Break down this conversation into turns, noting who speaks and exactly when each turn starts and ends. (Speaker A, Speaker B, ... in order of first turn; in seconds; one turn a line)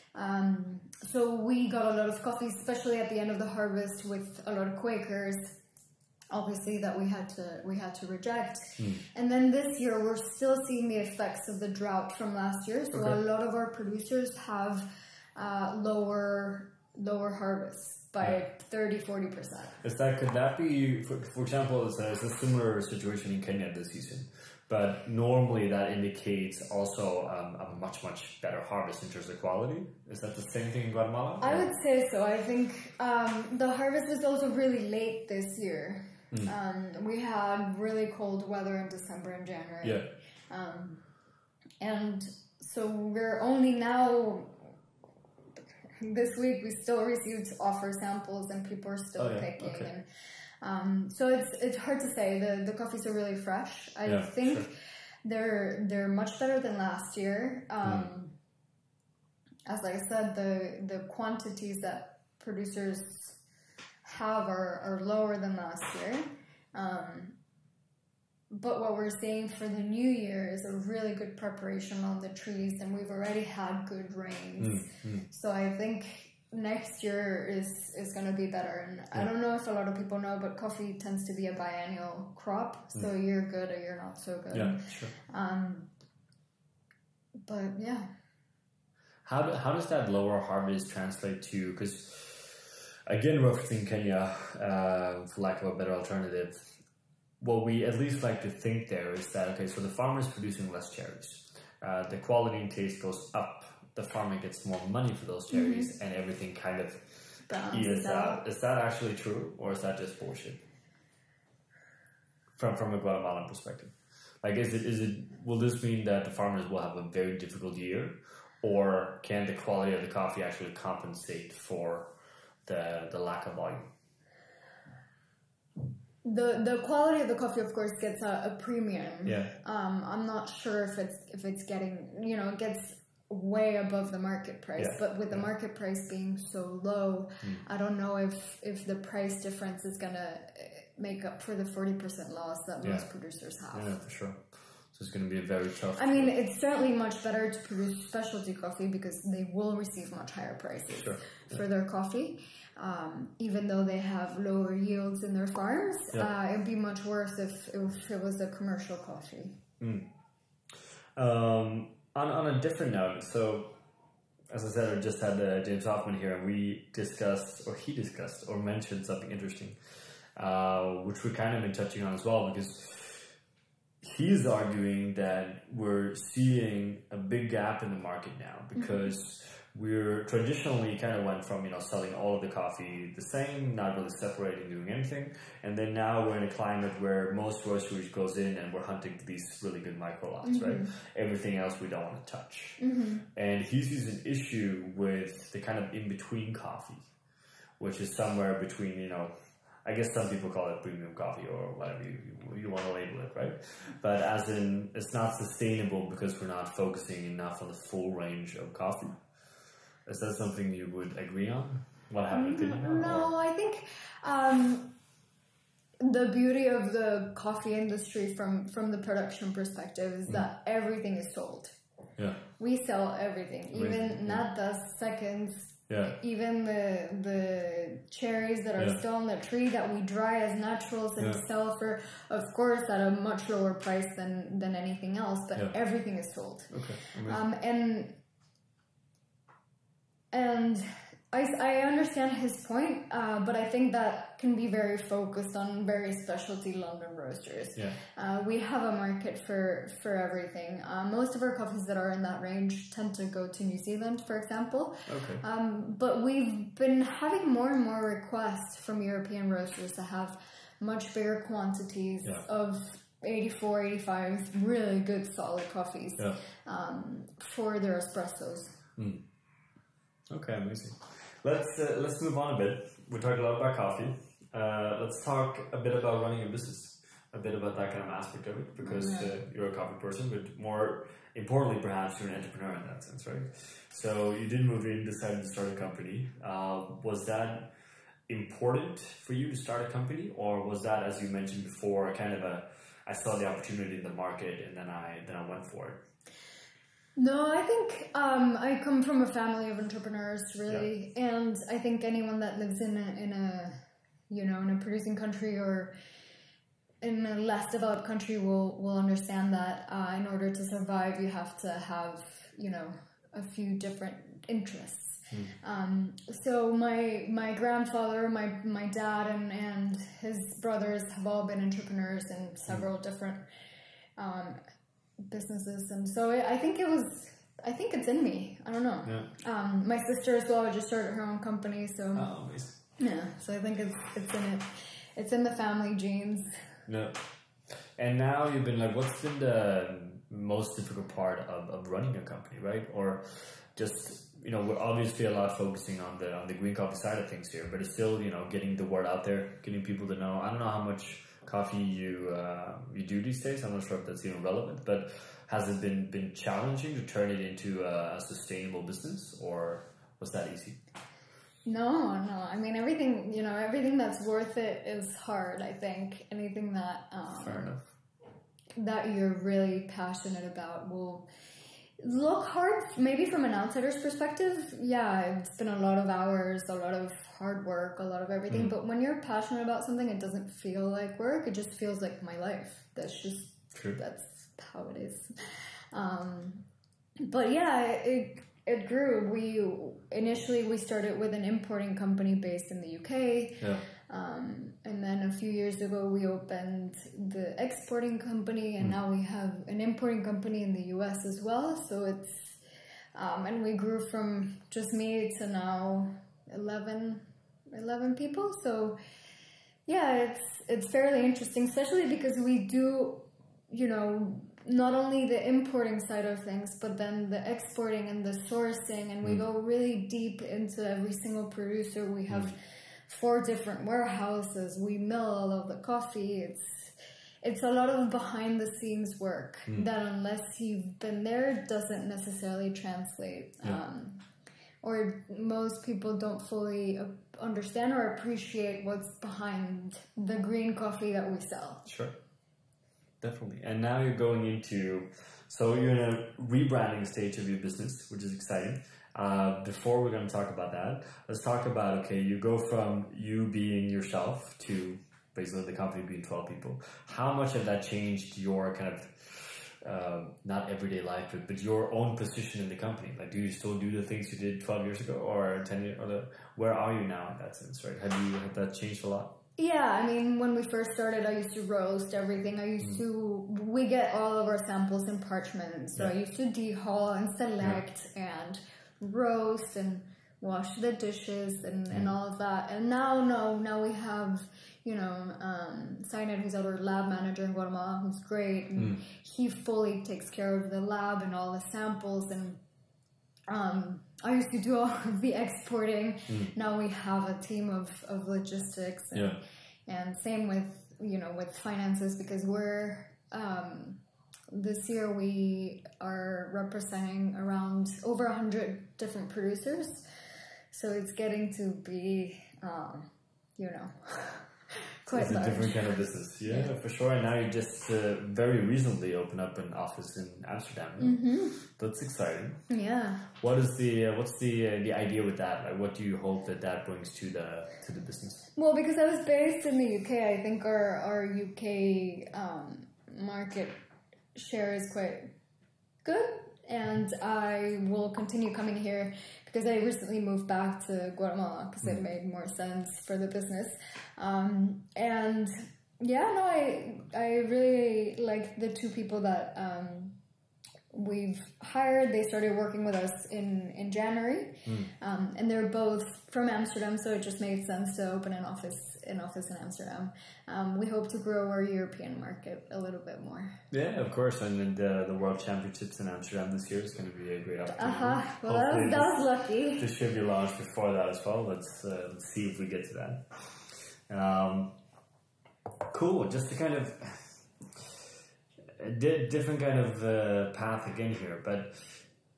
Speaker A: 0.1-5.6
Speaker A: 6.3-19.8
Speaker B: 12.9-13.2
Speaker B: 19.8-31.7
Speaker A: 31.4-41.0
Speaker B: 39.8-40.1
Speaker A: 41.8-44.7
Speaker A: 46.0-50.0
Speaker B: 49.2-49.9
Speaker A: 50.6-58.4
Speaker B: 54.1-54.6
Speaker B: 57.8-58.1
Speaker A: 59.7-63.4
Speaker A: 64.0-67.4
Speaker A: 68.5-85.9
Speaker B: 74.6-75.3
Speaker B: 84.5-85.1
Speaker A: 87.4-88.1
Speaker B: 89.2-96.8
Speaker B: 97.4-110.6
Speaker A: 105.5-105.9
Speaker A: 107.5-108.4
Speaker B: 112.6-122.1
Speaker B: 122.6-123.9
Speaker A: 126.2-144.0
Speaker B: 129.2-129.5
Speaker B: 134.8-135.5
Speaker B: 143.7-146.3
Speaker A: 146.0-159.6
Speaker B: 151.0-151.6
Speaker B: 159.8-160.1
Speaker B: 161.2-163.8
Speaker B: 164.5-169.8
Speaker B: 170.4-173.3
Speaker B: 174.0-192.8
Speaker A: 178.8-179.1
Speaker A: 190.4-190.9
Speaker A: 192.8-193.3
Speaker B: 193.3-197.1
Speaker B: 197.8-199.3
Speaker B: 199.8-209.2
Speaker B: 210.1-213.3
Speaker A: 212.3-214.9
Speaker A: 216.0-221.8
Speaker B: 222.2-222.4
Speaker A: 222.6-238.2
Speaker B: 223.7-224.4
Speaker B: 225.9-226.1
Speaker B: 236.7-237.4
Speaker A: 240.3-268.8
Speaker B: 255.1-255.4
Speaker B: 269.0-269.2
Speaker B: 270.3-287.7
Speaker A: 278.8-279.3
Speaker B: 288.3-296.0
Speaker A: 297.1-305.9
Speaker A: 307.0-323.4
Speaker A: 324.2-324.6
Speaker A: 325.2-332.3
Speaker B: 329.0-329.3
Speaker B: 332.1-332.8
Speaker A: 333.0-336.6
Speaker B: 336.9-337.2
Speaker B: 338.0-360.8
Speaker A: 361.6-367.7
Speaker B: 367.3-367.9
Speaker A: 368.8-371.3
Speaker A: 372.0-385.3
Speaker B: 383.7-384.0
Speaker A: 385.9-386.7
Speaker A: 387.2-402.6
Speaker B: 393.6-393.9
Speaker A: 403.1-409.0
Speaker A: 409.9-434.2
Speaker B: 422.3-422.5
Speaker A: 434.8-441.9
Speaker B: 441.9-442.1
Speaker B: 443.2-469.4
Speaker A: 469.6-492.6
Speaker A: 493.5-510.0
Speaker B: 496.3-496.5
Speaker B: 499.1-499.4
Speaker A: 510.7-516.7
Speaker B: 515.1-522.6
Speaker A: 521.0-521.6
Speaker A: 522.7-523.3
Speaker B: 523.4-528.5
Speaker A: 528.6-533.8
Speaker A: 534.4-535.3
Speaker A: 536.0-550.2
Speaker A: 550.9-563.6
Speaker B: 554.6-554.9
Speaker B: 563.7-569.2
Speaker A: 567.7-569.9
Speaker B: 569.8-573.2
Speaker B: 574.1-574.8
Speaker B: 575.9-578.0
Speaker B: 578.8-582.0